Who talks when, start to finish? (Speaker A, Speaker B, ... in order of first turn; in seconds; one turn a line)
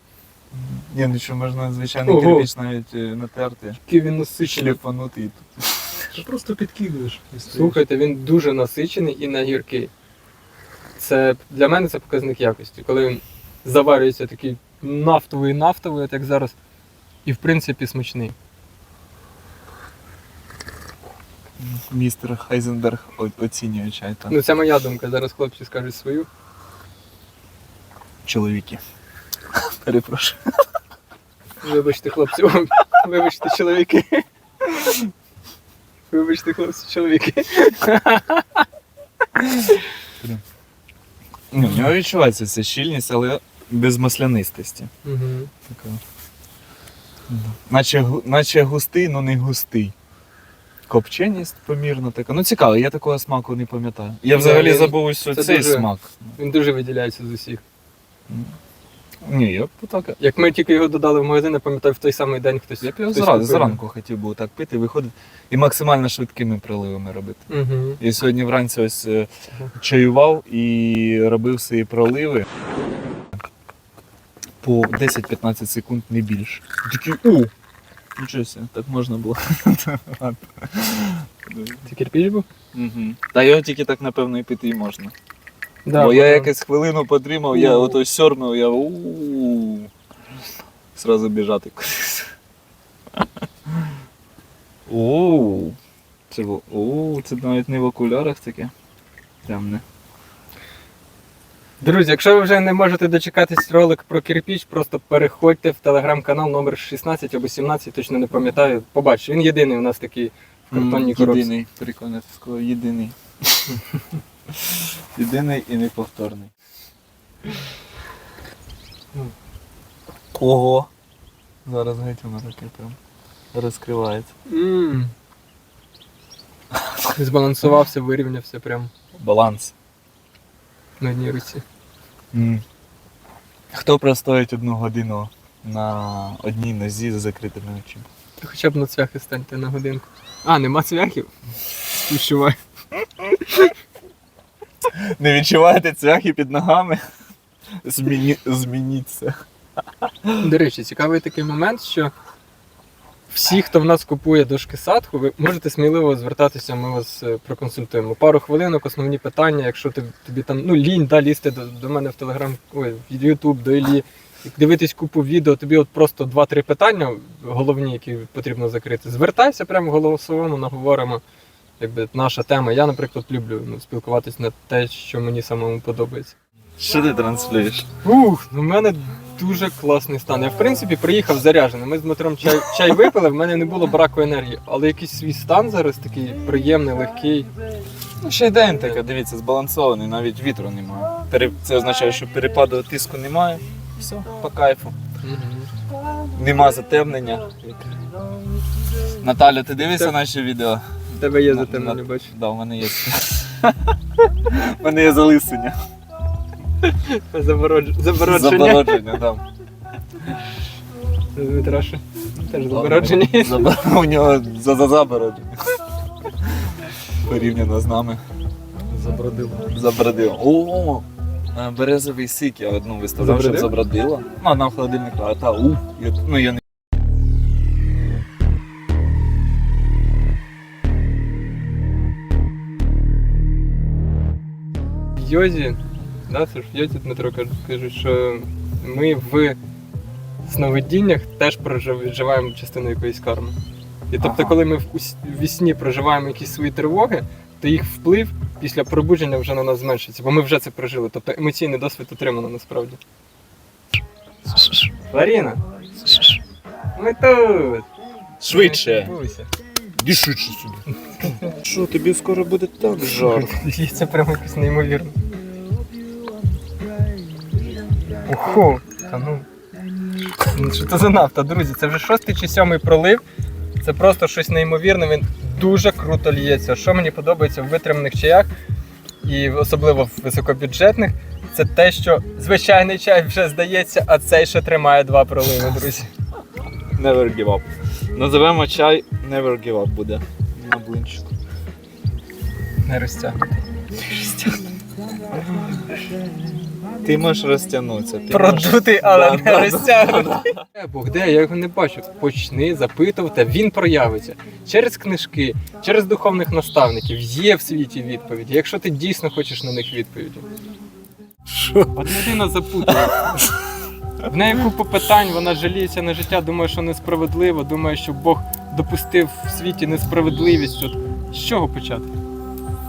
Speaker A: 0.5-3.8
Speaker B: 2.1-2.5
Speaker B: 3.9-4.8
Speaker A: 4.4-6.1
Speaker C: 6.1-7.8
Speaker B: 7.5-9.9
Speaker B: 11.0-16.6
Speaker B: 17.2-18.4
Speaker A: 21.6-24.4
Speaker B: 24.3-26.3
Speaker A: 28.2-28.8
Speaker A: 29.8-30.4
Speaker B: 31.6-34.8
Speaker B: 36.1-38.7
Speaker B: 39.4-39.8
Speaker A: 41.5-44.9
Speaker B: 45.0-45.5
Speaker A: 45.7-46.0
Speaker A: 47.3-49.9
Speaker A: 50.9-56.4
Speaker B: 54.3-57.6
Speaker A: 58.3-58.5
Speaker A: 59.2-60.2
Speaker B: 60.2-63.8
Speaker A: 62.8-67.5
Speaker B: 67.5-68.0
Speaker A: 68.0-72.5
Speaker A: 74.6-77.5
Speaker A: 78.2-81.9
Speaker B: 81.9-82.5
Speaker A: 82.7-85.1
Speaker B: 85.8-86.5
Speaker A: 85.9-89.9
Speaker B: 87.5-88.0
Speaker A: 91.0-92.3
Speaker A: 94.9-95.8
Speaker A: 96.3-98.7
Speaker A: 99.5-99.8
Speaker B: 101.8-111.5
Speaker A: 110.7-113.8
Speaker A: 114.5-116.5
Speaker A: 120.3-120.9
Speaker A: 121.7-123.0
Speaker A: 123.5-124.3
Speaker B: 124.5-125.1
Speaker B: 127.1-128.9
Speaker A: 129.2-129.7
Speaker B: 131.0-131.6
Speaker A: 132.3-132.6
Speaker A: 133.7-138.1
Speaker B: 138.4-141.3
Speaker B: 141.9-142.6
Speaker A: 144.9-147.0
Speaker A: 147.8-149.4
Speaker A: 150.0-150.4
Speaker B: 150.4-152.1
Speaker B: 153.3-171.2
Speaker B: 171.8-176.3
Speaker A: 176.8-177.9
Speaker B: 178.0-187.5
Speaker A: 182.5-183.1
Speaker A: 188.2-195.0
Speaker B: 195.2-195.7
Speaker A: 196.3-198.1
Speaker A: 199.1-205.8
Speaker B: 199.8-200.1
Speaker B: 201.2-202.3
Speaker B: 206.8-209.2
Speaker A: 208.2-209.4
Speaker B: 211.3-213.8
Speaker A: 212.5-215.8
Speaker A: 216.4-218.2
Speaker C: 218.9-219.7
Speaker B: 219.1-219.3
Speaker A: 219.7-226.6
Speaker B: 223.2-223.7
Speaker B: 235.2-239.6
Speaker B: 240.4-243.6
Speaker B: 244.1-253.0
Speaker A: 244.2-244.6
Speaker B: 255.1-255.6
Speaker B: 256.9-257.9
Speaker A: 258.4-259.1
Speaker B: 258.4-259.5
Speaker A: 260.0-260.8
Speaker A: 261.5-263.5
Speaker B: 263.0-265.2
Speaker B: 268.2-269.5
Speaker B: 270.5-273.2
Speaker B: 273.8-278.5
Speaker B: 279.2-286.1
Speaker A: 287.0-291.3
Speaker B: 292.8-293.4
Speaker B: 294.1-294.6
Speaker A: 295.4-295.8
Speaker A: 297.0-300.6
Speaker B: 298.3-310.5
Speaker C: 311.5-311.9
Speaker B: 311.9-313.3
Speaker A: 313.1-313.5
Speaker B: 314.2-322.1